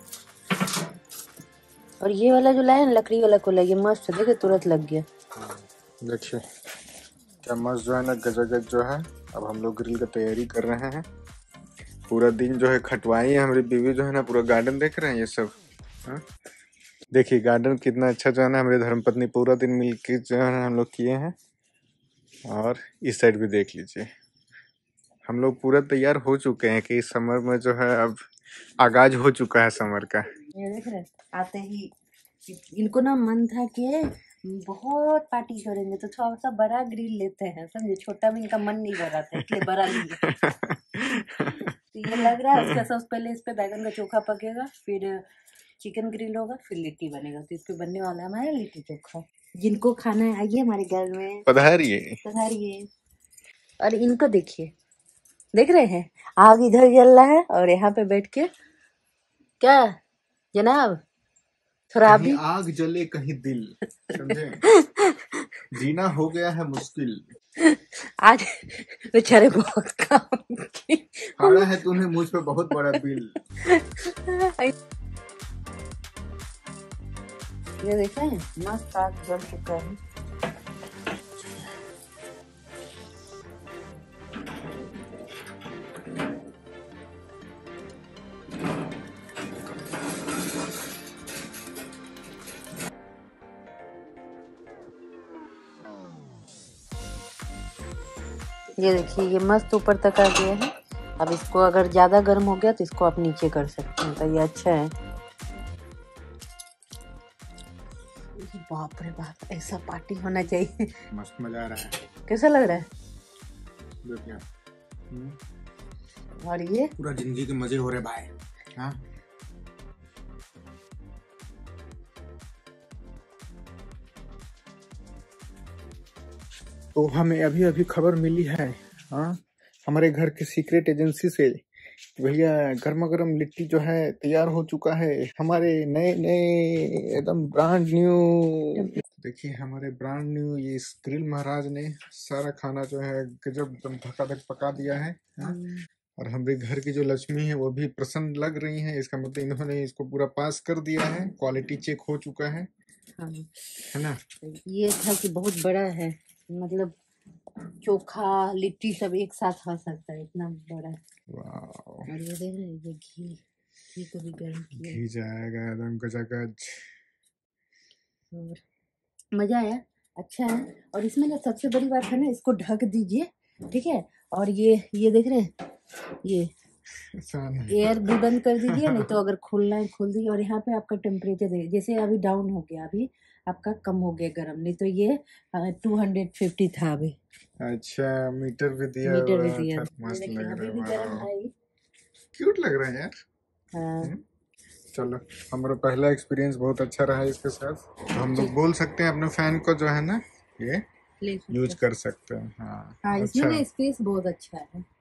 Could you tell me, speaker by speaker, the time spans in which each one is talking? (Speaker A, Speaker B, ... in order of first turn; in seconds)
Speaker A: 2.0-5.0, 30.5-31.9, 32.5-40.2, 41.9-45.2, 45.8-51.5, 52.2-52.9, 53.8-54.7, 55.5-58.5, 59.6-60.0, 60.5-61.0, 61.9-62.4, 64.1-65.5, 67.6-71.7, 72.7-73.0, 73.6-74.7, 77.8-80.0, 98.8-104.9, 108.4-110.9, 112.3-112.9, 116.4-116.9, 138.8-139.0, 145.4-145.8, 153.2-153.5, 154.4-156.9, 157.8-161.0, 162.1-163.4, 163.9-165.0, 168.3-168.6, 169.3-175.5, 176.2-176.5, 177.7-187.2, 189.0-191.5, 193.7-194.1, 198.3-198.6, 201.2-201.8, 203.0-204.8
Speaker B: 5.3-6.4, 7.4-11.1, 12.1-15.5, 17.1-21.3, 22.5-24.1, 25.3-28.2, 28.8-30.2, 39.4-42.8, 51.5-52.2, 62.0-64.6, 65.7-67.2, 71.4-73.4, 111.1-112.0, 114.0-114.4, 115.1-115.4, 117.0-119.0, 126.9-131.6, 132.2-145.6, 146.2-152.7, 153.9-154.2, 161.3-162.1, 164.7-166.9, 177.1-178.1, 178.7-179.1, 187.6-191.3, 192.3-193.1, 194.9-200.8, 201.5-203.6